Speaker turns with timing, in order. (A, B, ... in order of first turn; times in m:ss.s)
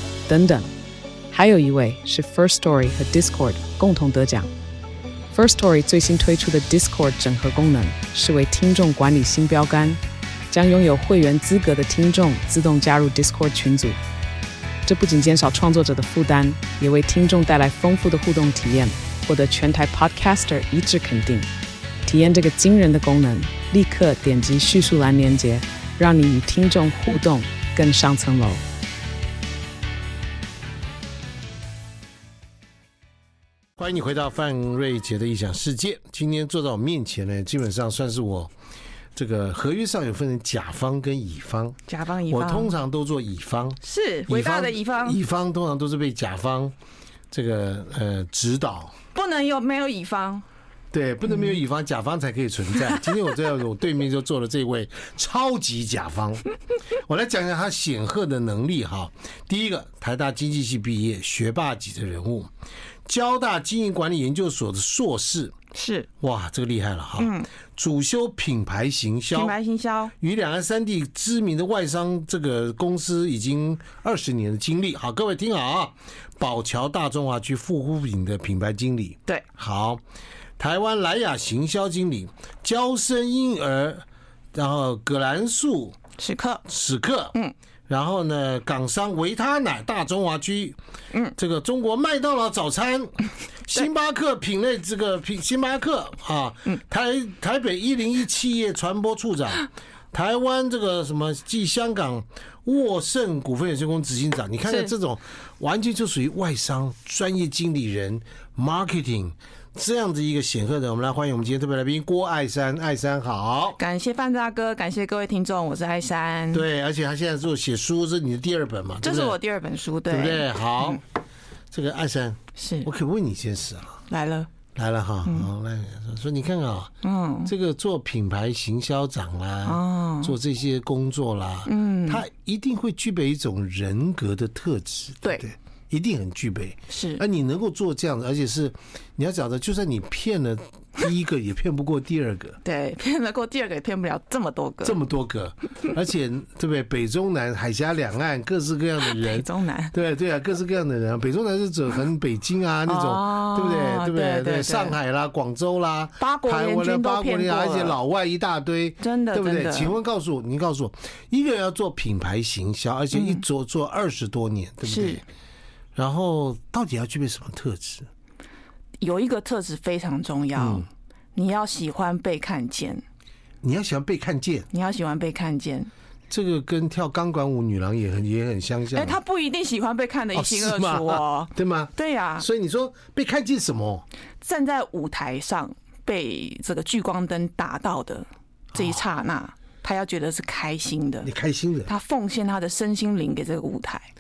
0:00.3-0:00.7 A
0:01.3-0:04.5 A
0:05.3-0:10.0 A
0:10.5-0:14.0 A
0:14.9-0:21.5 A
0:22.1-0:28.6 A
0:33.8-0:38.5 B
0:39.2-0:46.8 B
0:41.9-0:42.8 C
0:43.8-0:45.2 C
0:47.3-0:48.9 B
0:49.1-0:50.4 C
0:50.9-1:02.5 B
1:03.1-1:05.5 B
1:05.7-1:06.1 C
1:06.2-1:09.6 B
1:07.2-1:07.5 C
1:09.3-1:10.1 C
1:10.2-1:20.0 B
1:20.6-1:26.0 B
1:26.2-1:26.6 C
1:26.6-1:27.4 B
1:27.9-1:30.8 B
1:31.4-1:33.2 B
1:33.7-1:53.8 B
1:53.8-1:56.7 C
1:56.5-1:59.4 B
1:59.0-2:01.0 C
2:00.1-2:01.0 B
2:01.7-2:04.0 B
2:02.6-2:02.9 C
2:04.1-2:04.5 C
2:04.8-2:06.9 B
2:07.0-2:07.5 C
2:07.5-2:22.6 B
2:09.6-2:10.3 C
2:11.7-2:12.2 C
2:16.9-2:17.2 C
2:22.6-2:25.0 C
2:24.8-2:45.2 B
2:29.0-2:29.9 C
2:32.9-2:35.0 C
2:36.2-2:38.0 C
2:39.0-2:40.0 C
2:43.1-2:43.4 C
2:44.8-2:45.2 C
2:46.0-2:48.1 B
2:49.0-2:53.0 C
2:50.6-2:50.9 B
2:53.6-2:54.7 B
2:54.7-2:55.9 C
2:56.3-2:59.2 B
2:58.9-3:02.5 C
3:00.3-3:04.0 B
3:04.4-3:11.3 C
3:11.2-3:11.9 B
3:11.9-3:14.1 C